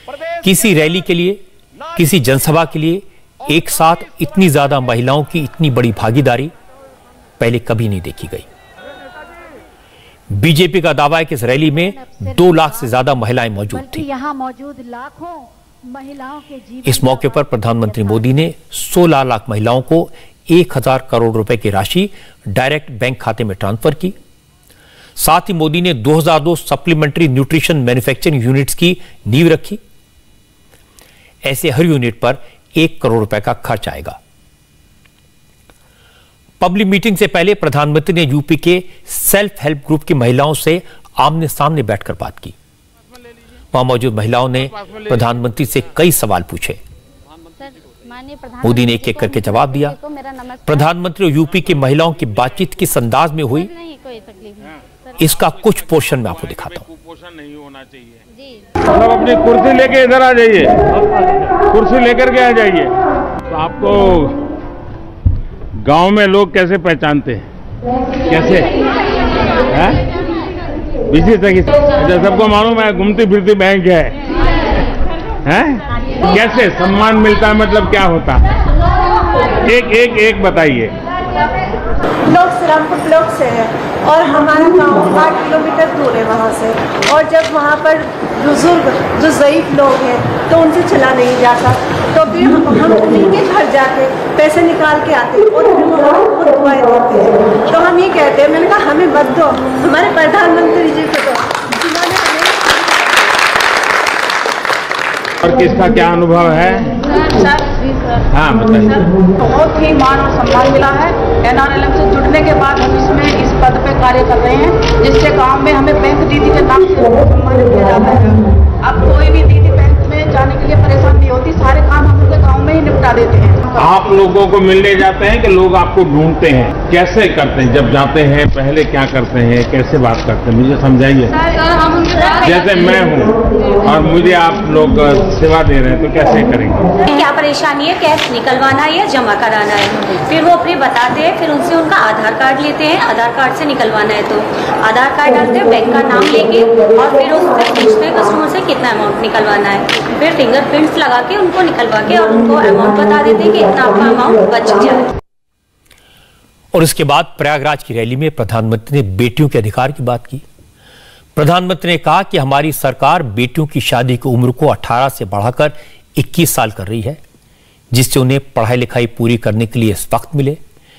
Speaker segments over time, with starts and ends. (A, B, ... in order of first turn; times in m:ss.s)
0:00.4-0:01.4 A
0:02.0-0:06.5 A
0:07.4-0:08.5 A
0:10.3-0:14.1 A
0:11.8-0:18.3 B
0:16.8-0:24.2 A
0:25.2-0:29.8 A
0:31.4-0:34.2 A
0:36.6-0:42.6 A
0:43.7-0:46.8 A
0:47.6-0:51.0 B
0:48.6-0:49.9 A
0:50.6-0:53.7 A
0:53.5-0:55.4 B
0:55.2-0:56.9 A
0:57.2-0:58.2 C
0:58.3-0:58.7 B
0:58.9-1:00.9 C
1:01.7-1:02.9 C
1:03.5-1:04.4 C
1:05.8-1:07.5 C
1:08.3-1:08.7 C
1:09.7-1:10.0 C
1:11.1-1:14.2 C
1:15.4-1:18.4 C
1:19.7-1:21.0 C
1:22.3-1:42.8 D
1:45.4-1:46.9 C
1:47.0-1:48.2 E
1:48.3-1:49.1 C
1:48.8-2:04.0 E
2:03.8-2:11.3 C
2:11.4-2:12.6 E
2:12.4-2:16.9 C
2:17.1-2:35.1 F
2:36.7-2:40.4 A
2:41.4-2:47.2 A
2:47.9-2:50.6 A